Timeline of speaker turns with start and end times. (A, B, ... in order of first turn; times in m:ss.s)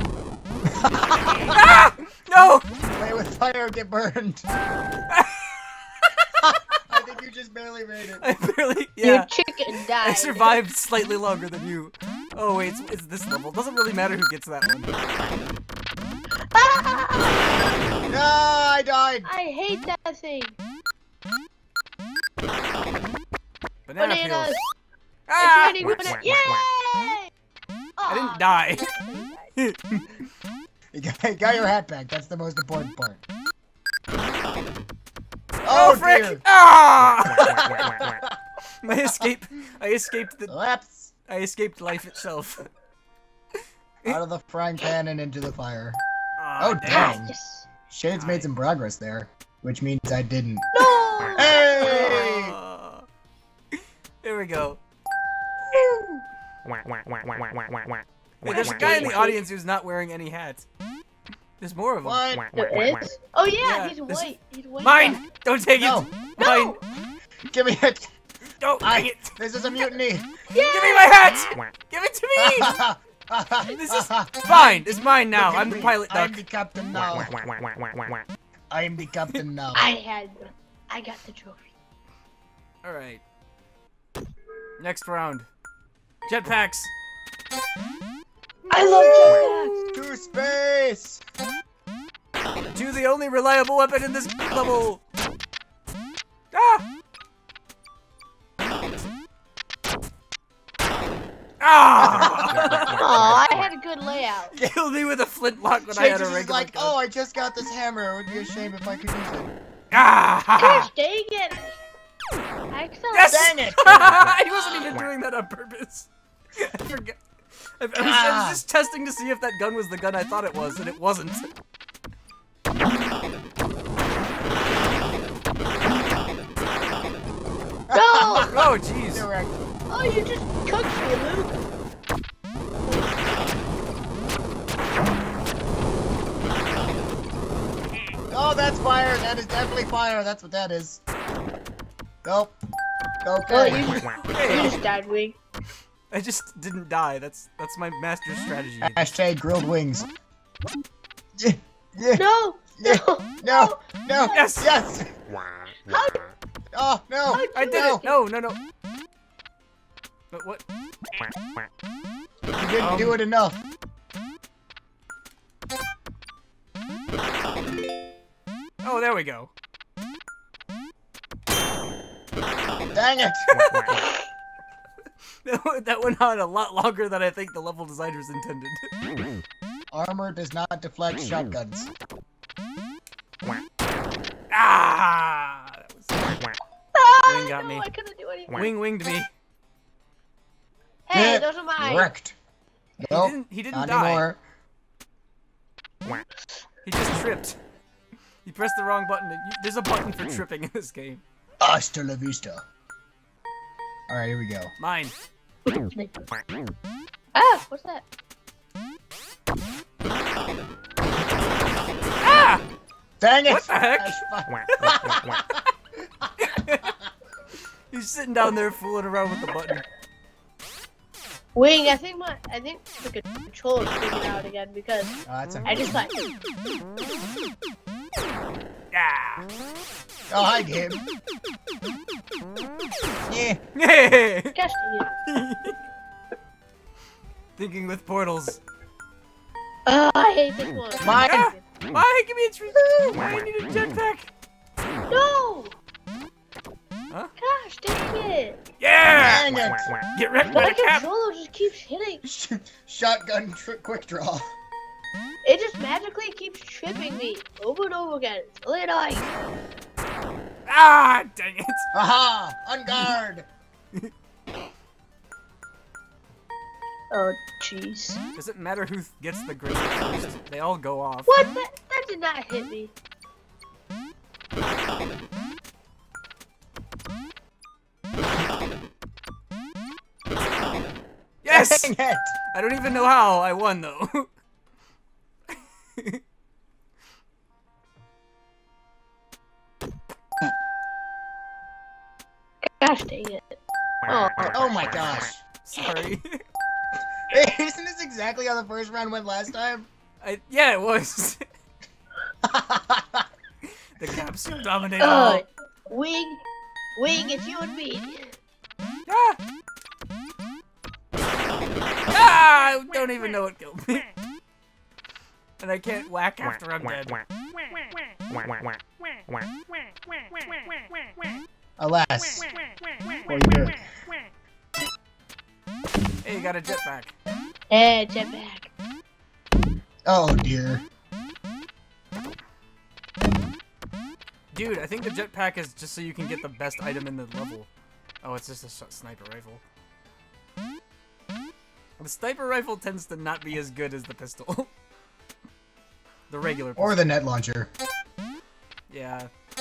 0:00.7-0:01.6 A
0:01.5-0:02.6 B
0:02.9-0:04.4 A
0:05.1-0:06.3 B
0:06.4-0:08.2 A
0:08.2-0:09.3 B
0:09.0-0:10.6 C
0:10.0-0:14.9 B
0:16.5-0:17.6 C
0:18.1-0:19.3 A
0:19.2-0:20.6 C
0:23.9-0:24.6 B
0:24.0-0:24.6 C
0:25.3-0:26.2 B
0:25.4-0:27.3 C
0:28.0-0:29.5 C
0:28.1-0:28.9 B
0:30.9-0:33.2 A
0:35.6-0:36.4 A
0:35.7-0:37.8 B
0:38.0-0:38.4 A
0:38.8-0:40.6 B
0:40.5-0:41.1 A
0:41.3-0:42.7 B
0:44.0-0:46.0 A
0:46.4-0:47.3 B
0:46.6-0:47.3 A
0:46.9-0:47.7 C
0:47.9-0:50.7 A
0:48.1-0:48.5 B
0:50.7-0:52.3 C
0:51.4-0:52.6 A
0:51.8-0:53.1 B
0:53.8-0:54.8 B
0:55.7-0:56.2 A
0:58.4-1:00.6 B
0:58.4-0:59.4 C
1:01.6-1:02.2 B
1:02.0-1:02.4 A
1:02.6-1:05.2 C
1:03.6-1:06.8 B
1:05.8-1:06.1 A
1:06.4-1:06.8 C
1:07.5-1:08.1 A
1:08.6-1:09.4 B
1:08.8-1:10.3 A
1:10.5-1:11.6 C
1:10.7-1:12.8 B
1:12.4-1:17.4 A
1:13.7-1:16.4 B
1:18.7-1:19.9 A
1:19.8-1:21.7 C
1:22.8-1:23.2 B
1:24.8-1:25.5 B
1:26.2-1:26.9 B
1:28.7-1:29.9 B
1:28.7-1:29.8 C
1:28.8-1:31.2 A
1:32.7-1:35.0 B
1:36.5-1:36.8 B
1:41.6-1:43.4 B
1:42.0-1:42.8 A
1:42.9-1:44.6 C
1:44.5-1:47.0 B
1:45.9-1:49.5 A
1:49.9-1:50.9 B
1:50.6-1:51.8 C
1:52.7-1:53.6 C
1:53.1-1:57.2 B
1:53.3-1:54.2 A
1:57.8-2:01.5 B
1:58.0-1:58.6 A
2:07.9-2:09.5 A
2:07.9-2:08.6 C
2:08.5-2:09.3 B
2:09.9-2:11.6 C
2:18.3-2:21.0 A
2:22.2-2:22.6 A
2:23.2-2:23.9 A
2:23.5-2:25.4 C
2:23.7-2:24.8 B
2:26.1-2:29.0 B
2:28.8-2:30.1 A
2:31.4-2:32.2 A
2:32.2-2:34.5 C
2:32.8-2:35.1 A
2:34.3-2:34.7 B
2:35.9-2:36.3 C
2:36.7-2:38.0 A
2:37.3-2:38.2 C
2:37.5-2:38.6 B
2:40.3-2:40.6 B
2:42.5-2:43.6 A
2:42.8-2:43.2 B
2:48.8-2:49.5 B
2:52.9-2:53.5 A
2:53.5-2:54.0 B
2:55.4-2:58.9 B
2:59.9-3:01.9 A
3:04.5-3:06.2 B
3:06.9-3:08.7 C
3:07.2-3:07.9 B
3:08.5-3:09.3 B
3:11.1-3:12.1 C
3:11.1-3:12.4 A
3:13.0-3:14.4 A
3:13.0-3:14.3 B
3:16.8-3:17.6 B
3:18.4-3:21.2 B
3:21.6-3:22.6 A
3:24.1-3:24.7 A
3:24.8-3:25.1 B
3:25.7-3:26.2 C
3:27.4-3:28.0 C
3:32.2-3:32.6 B
3:33.2-3:35.6 A
3:33.5-3:34.2 B
3:36.4-3:36.9 B
3:37.9-3:39.8 B
3:41.5-3:46.1 C
3:45.2-3:46.0 A
3:48.9-3:49.5 B
3:50.3-3:51.0 A
3:53.3-3:53.6 A
3:53.8-3:54.6 B
3:54.5-3:55.2 C
3:55.2-3:55.8 B
3:57.6-3:58.6 B
3:59.9-4:01.6 C
4:01.0-4:01.5 A
4:01.1-4:04.3 B
4:02.8-4:03.2 A
4:05.1-4:05.8 C
4:07.4-4:08.6 C
4:08.8-4:09.6 B
4:09.1-4:09.9 A
4:10.1-4:11.0 B
4:10.5-4:12.2 C
4:12.2-4:14.5 A
4:15.4-4:19.3 C
4:20.6-4:21.9 B
4:21.9-4:23.5 A
4:27.1-4:28.2 C
4:28.4-4:31.4 B
4:31.3-4:32.9 C
4:41.4-4:41.9 B
4:41.5-4:42.4 A
4:42.5-4:44.3 B
4:46.0-4:46.2 B
4:52.6-4:55.1 C
4:54.4-4:55.4 A
4:55.6-4:56.4 B
4:57.3-4:59.9 A
5:00.2-5:01.4 B
5:02.4-5:03.3 A
5:04.0-5:05.4 B
5:05.0-5:06.4 C
5:07.0-5:08.3 C
5:09.1-5:09.4 B
5:12.1-5:14.1 B
5:15.6-5:17.2 B
5:21.8-5:22.5 A
5:23.2-5:23.8 A
5:26.2-5:27.1 B
5:27.7-5:28.7 C
5:30.0-5:30.8 A
5:34.5-5:37.7 B
5:38.2-5:39.6 B
5:42.0-5:44.7 B
5:46.3-5:47.0 B
5:46.8-5:47.7 A
5:48.9-5:49.3 B